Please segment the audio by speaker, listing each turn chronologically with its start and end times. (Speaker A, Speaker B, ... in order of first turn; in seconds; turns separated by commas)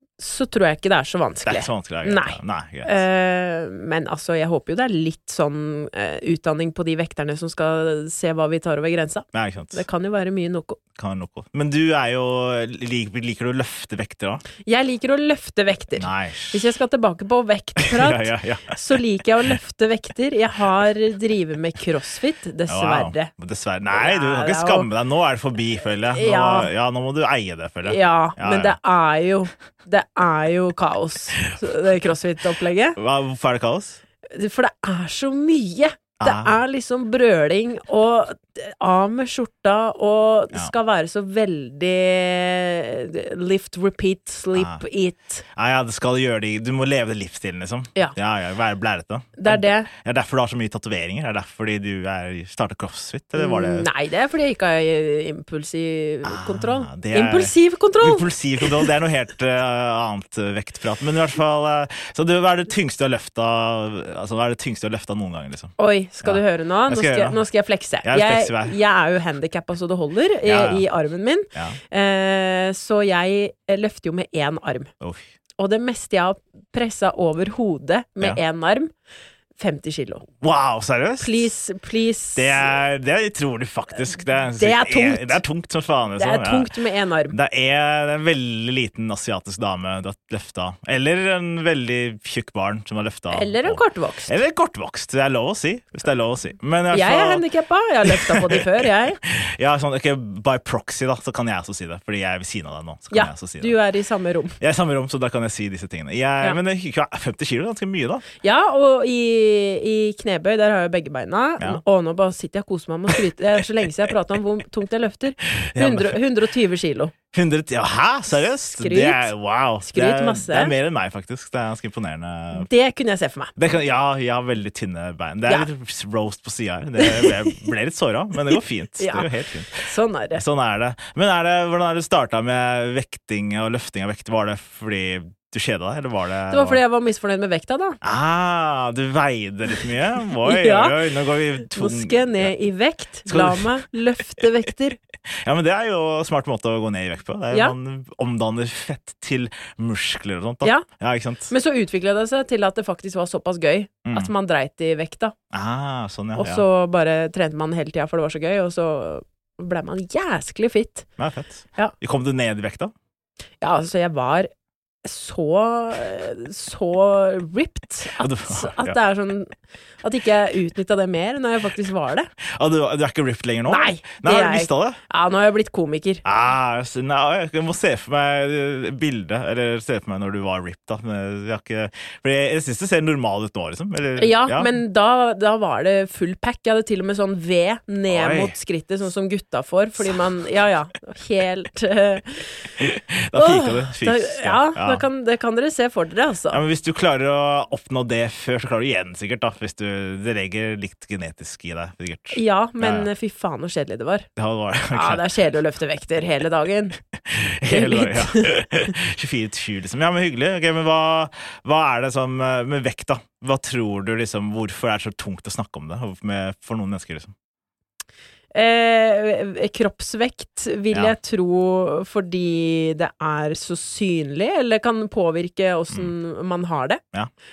Speaker A: 0.2-10.8, Speaker B: 1.4-3.0, Speaker B: 9.3-9.8, Speaker B: 10.9-14.4, Speaker A: 14.6-23.3, Speaker B: 16.0-16.6, Speaker B: 17.8-18.8, Speaker B: 22.7-28.7, Speaker A: 23.9-24.9, Speaker A: 26.1-26.7, Speaker A: 27.9-33.0, Speaker B: 33.0-34.0, Speaker A: 34.3-45.4, Speaker B: 36.2-36.6, Speaker B: 44.5-44.8, Speaker B: 45.5-53.9, Speaker A: 49.4-49.9, Speaker A: 53.4-58.9, Speaker B: 56.2-67.4, Speaker A: 65.8-74.9, Speaker B: 68.0-68.8, Speaker B: 70.4-70.8, Speaker B: 75.0-75.2, Speaker A: 75.6-78.9, Speaker A: 79.6-80.3, Speaker B: 80.4-81.5, Speaker A: 81.2-82.7, Speaker B: 82.3-86.7, Speaker A: 84.6-85.4, Speaker A: 86.2-87.3, Speaker B: 87.3-97.4, Speaker A: 93.3-94.3, Speaker A: 96.9-99.2, Speaker B: 98.1-103.8, Speaker A: 103.1-104.6, Speaker B: 104.6-108.2, Speaker A: 108.4-117.1, Speaker B: 115.6-116.2, Speaker B: 117.3-122.7, Speaker A: 118.3-119.3, Speaker A: 119.8-120.7, Speaker A: 122.6-123.5, Speaker B: 123.6-129.8, Speaker A: 127.0-127.6, Speaker A: 128.5-130.4, Speaker B: 130.3-136.8, Speaker A: 136.5-138.0, Speaker B: 138.0-142.5, Speaker A: 140.4-141.1, Speaker A: 141.8-145.0, Speaker B: 143.3-143.8, Speaker B: 145.4-151.5, Speaker A: 151.5-155.3, Speaker B: 154.1-154.3, Speaker B: 155.5-156.6, Speaker A: 156.3-161.1, Speaker B: 161.2-162.9, Speaker A: 163.6-164.5, Speaker A: 165.0-169.5, Speaker B: 168.2-168.9, Speaker A: 170.0-172.3, Speaker B: 172.4-175.0, Speaker A: 173.7-176.2, Speaker B: 176.2-184.8, Speaker A: 184.2-192.7, Speaker B: 188.1-188.5, Speaker B: 192.8-195.0, Speaker A: 193.3-196.6, Speaker B: 196.5-203.1, Speaker A: 202.3-204.3, Speaker B: 204.4-205.3, Speaker A: 204.9-207.0, Speaker B: 207.3-217.3, Speaker A: 207.7-208.6, Speaker A: 218.5-227.0